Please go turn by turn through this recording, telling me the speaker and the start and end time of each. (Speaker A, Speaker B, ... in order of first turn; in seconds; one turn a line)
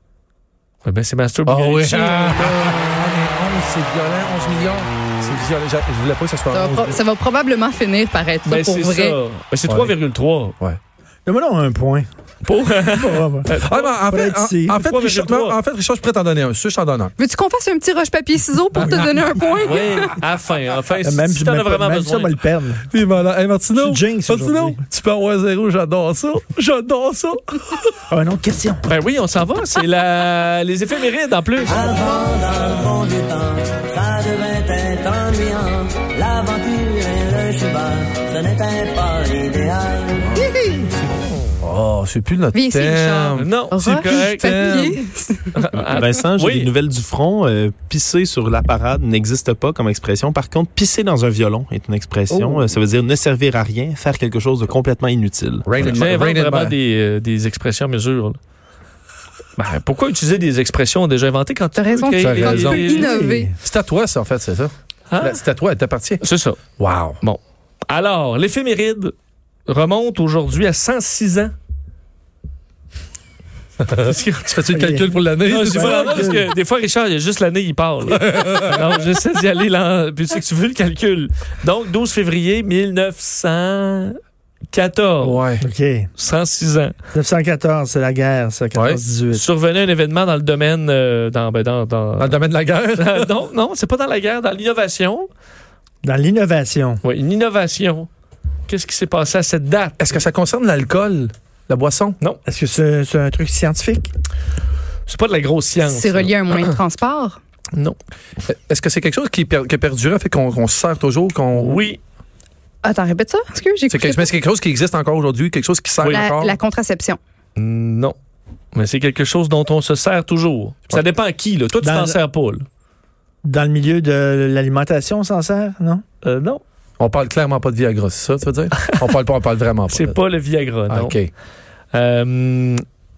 Speaker A: 0.8-2.6
Speaker B: 1.5-7.0
Speaker C: 6.5-9.2
Speaker A: 8.4-10.6
Speaker B: 9.6-9.9
Speaker D: 11.2-12.1
Speaker A: 12.4-13.9
Speaker D: 12.9-13.5
Speaker B: 13.6-17.1
Speaker D: 14.1-14.8
Speaker A: 14.8-15.6
Speaker C: 17.2-20.2
Speaker D: 18.8-19.4
Speaker A: 19.6-22.3
Speaker D: 21.0-22.8
Speaker B: 22.9-27.9
Speaker D: 23.7-24.8
Speaker D: 28.1-28.9
Speaker A: 28.8-31.9
Speaker E: 31.7-40.2
Speaker D: 40.3-40.9
Speaker B: 41.6-43.5
Speaker C: 42.5-45.6
Speaker A: 43.4-45.0
Speaker A: 45.5-46.7
Speaker F: 45.8-55.6
Speaker D: 52.3-52.7
Speaker B: 55.6-56.8
Speaker A: 55.8-58.4
Speaker A: 59.6-63.3
Speaker C: 61.8-63.5
Speaker B: 62.2-63.0
Speaker D: 62.7-63.5
Speaker B: 63.6-66.2
Speaker A: 65.1-65.4
Speaker A: 66.2-66.6
Speaker B: 66.8-67.2
Speaker A: 67.2-69.1
Speaker A: 69.7-71.5
Speaker B: 73.8-76.4
Speaker A: 74.0-74.7
Speaker D: 74.7-76.5
Speaker A: 75.4-84.2
Speaker B: 78.1-78.9
Speaker A: 84.7-85.4
Speaker B: 85.2-85.6
Speaker D: 85.6-86.1
Speaker A: 86.2-86.9
Speaker D: 87.1-89.5
Speaker B: 88.7-89.0
Speaker A: 89.3-92.3
Speaker B: 92.2-93.3
Speaker A: 92.9-95.3
Speaker D: 96.0-97.0
Speaker A: 97.0-98.1
Speaker A: 98.7-100.2
Speaker B: 100.0-102.2
Speaker D: 102.5-104.1
Speaker A: 105.1-106.3
Speaker C: 105.8-107.4
Speaker B: 108.5-111.8
Speaker A: 111.6-112.0
Speaker C: 112.8-114.3
Speaker B: 113.9-116.5
Speaker C: 116.1-117.2
Speaker A: 117.5-118.2
Speaker A: 118.7-122.6
Speaker D: 121.8-122.2
Speaker D: 123.4-126.0
Speaker A: 126.2-126.6
Speaker B: 127.0-130.2
Speaker A: 129.9-131.2
Speaker B: 130.9-131.3
Speaker A: 131.9-132.8